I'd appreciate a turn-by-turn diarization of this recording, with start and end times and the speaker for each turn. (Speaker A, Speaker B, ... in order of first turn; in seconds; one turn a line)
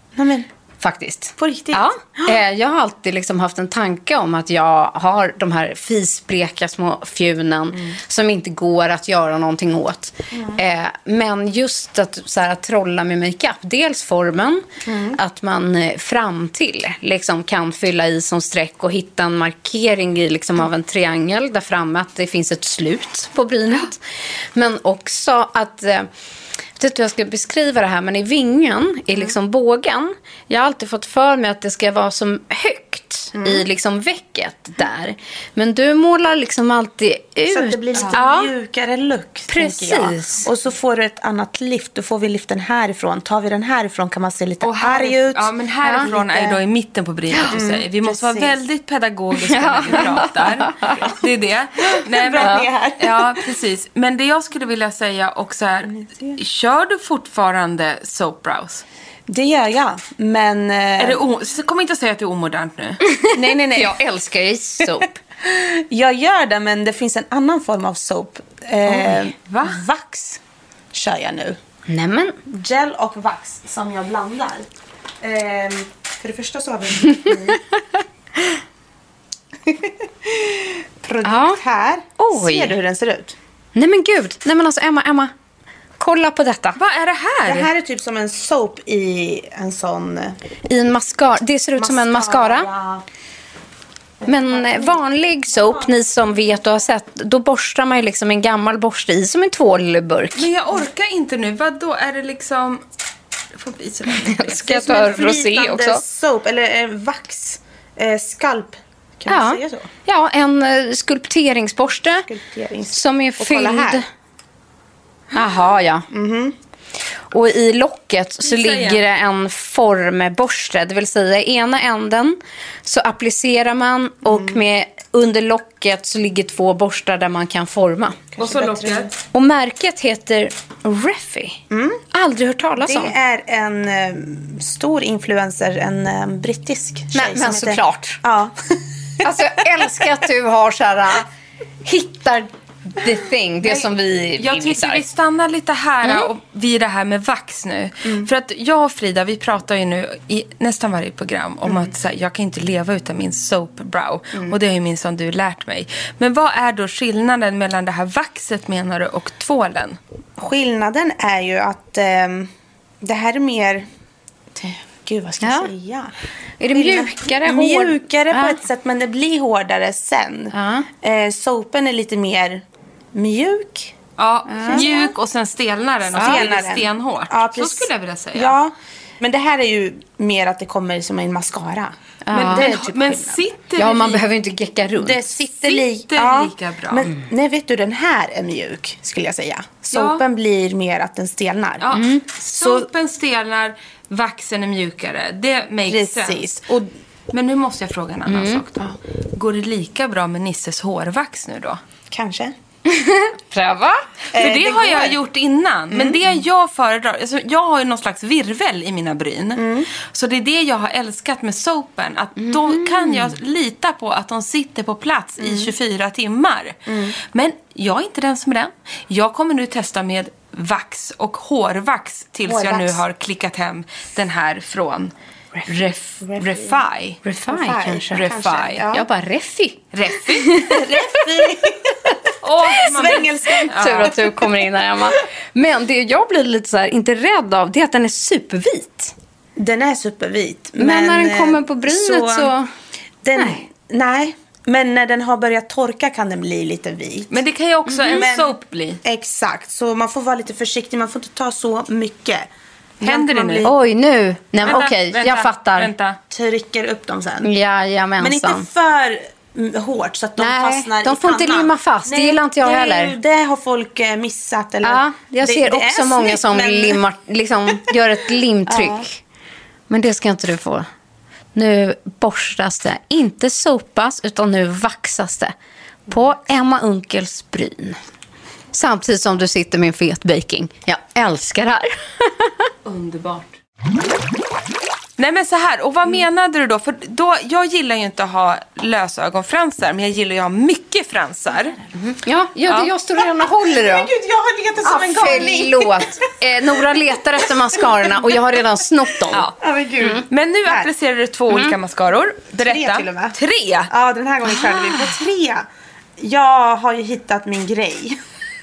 Speaker A: 0.1-0.5
Speaker B: 0.8-24.0
Speaker A: 1.4-2.4
Speaker A: 10.3-10.6
Speaker A: 14.8-15.2
Speaker B: 24.5-26.1
Speaker B: 26.8-38.5
Speaker A: 33.3-33.6
Speaker A: 37.5-46.6
Speaker C: 37.9-38.2
Speaker B: 39.5-40.5
Speaker C: 44.6-58.8
Speaker B: 45.8-46.1
Speaker A: 47.5-48.5
Speaker B: 49.5-51.1
Speaker A: 52.0-53.4
Speaker A: 55.9-56.4
Speaker A: 59.3-61.2
Speaker C: 61.0-63.0
Speaker B: 63.0-65.2
Speaker A: 63.3-64.0
Speaker A: 65.4-70.4
Speaker C: 68.9-69.8
Speaker A: 70.9-71.6
Speaker B: 71.9-72.4
Speaker A: 72.5-74.7
Speaker A: 75.2-77.6
Speaker A: 79.6-83.3
Speaker B: 81.2-81.6
Speaker B: 82.2-82.7
Speaker B: 83.7-85.3
Speaker B: 86.0-86.8
Speaker C: 86.8-87.7
Speaker A: 87.5-90.3
Speaker B: 90.7-92.7
Speaker A: 91.8-93.0
Speaker A: 94.2-96.4
Speaker B: 94.2-100.5
Speaker C: 100.3-102.8
Speaker C: 103.5-105.3
Speaker B: 104.2-106.0
Speaker A: 104.6-109.9
Speaker B: 109.3-112.3
Speaker A: 112.2-114.0
Speaker B: 112.9-114.0
Speaker B: 115.3-116.0
Speaker A: 116.1-116.5
Speaker B: 117.3-128.2
Speaker C: 118.4-119.0
Speaker A: 124.2-124.6
Speaker A: 128.3-129.1
Speaker C: 128.4-129.1
Speaker B: 129.3-131.6
Speaker A: 131.7-132.0
Speaker B: 132.1-133.1
Speaker A: 132.8-139.2
Speaker B: 137.1-138.2
Speaker B: 139.2-141.3
Speaker B: 141.8-145.0
Speaker C: 143.6-160.0
Speaker B: 146.0-146.3
Speaker A: 160.4-162.5
Speaker A: 163.0-163.8
Speaker A: 164.5-166.1
Speaker B: 165.4-165.7
Speaker B: 166.6-168.6
Speaker A: 166.7-173.9
Speaker B: 170.5-170.9
Speaker C: 174.2-178.5
Speaker B: 174.5-174.8
Speaker A: 174.6-175.1
Speaker A: 176.1-183.4
Speaker B: 176.2-176.4
Speaker B: 182.2-182.7
Speaker C: 182.3-184.2
Speaker B: 183.8-185.3
Speaker A: 184.9-191.9
Speaker C: 185.6-187.1
Speaker C: 189.9-190.2
Speaker C: 191.8-196.7
Speaker B: 191.9-192.2
Speaker A: 192.5-192.9
Speaker A: 195.9-196.9
Speaker C: 197.3-201.8
Speaker B: 198.3-198.6
Speaker A: 202.1-202.5
Speaker B: 202.9-204.1
Speaker A: 204.3-205.2
Speaker C: 204.3-225.1
Speaker A: 205.9-206.3
Speaker A: 209.6-209.9
Speaker B: 212.4-213.3
Speaker A: 215.4-215.7
Speaker A: 216.9-217.2
Speaker A: 222.4-223.0
Speaker C: 225.7-227.2
Speaker A: 226.2-226.8
Speaker B: 227.2-228.3
Speaker A: 227.5-229.1
Speaker C: 228.1-228.8
Speaker B: 228.9-230.9
Speaker C: 229.9-230.6
Speaker A: 230.6-234.5
Speaker C: 232.4-234.2
Speaker B: 233.6-239.1
Speaker A: 239.6-242.5
Speaker B: 240.8-242.7
Speaker A: 243.2-247.3
Speaker B: 243.3-243.6
Speaker C: 247.3-249.0
Speaker B: 247.9-248.3
Speaker A: 248.1-252.5
Speaker A: 253.0-253.7
Speaker C: 253.0-253.7
Speaker B: 253.6-255.9
Speaker C: 254.6-256.2
Speaker A: 256.3-257.5
Speaker B: 257.4-258.6
Speaker A: 258.2-267.0
Speaker B: 260.4-263.1
Speaker B: 264.8-269.2
Speaker A: 268.7-269.1
Speaker B: 269.9-270.9
Speaker B: 271.5-275.5
Speaker B: 276.1-278.0
Speaker B: 278.7-282.7
Speaker C: 282.8-283.6
Speaker C: 285.2-291.8
Speaker B: 292.0-294.1
Speaker C: 292.7-292.9
Speaker A: 293.6-296.1
Speaker B: 294.8-299.4
Speaker A: 297.7-298.3
Speaker A: 299.6-300.9
Speaker C: 300.3-303.9
Speaker A: 302.6-303.4
Speaker A: 303.9-305.6
Speaker B: 304.5-305.2
Speaker A: 306.2-308.2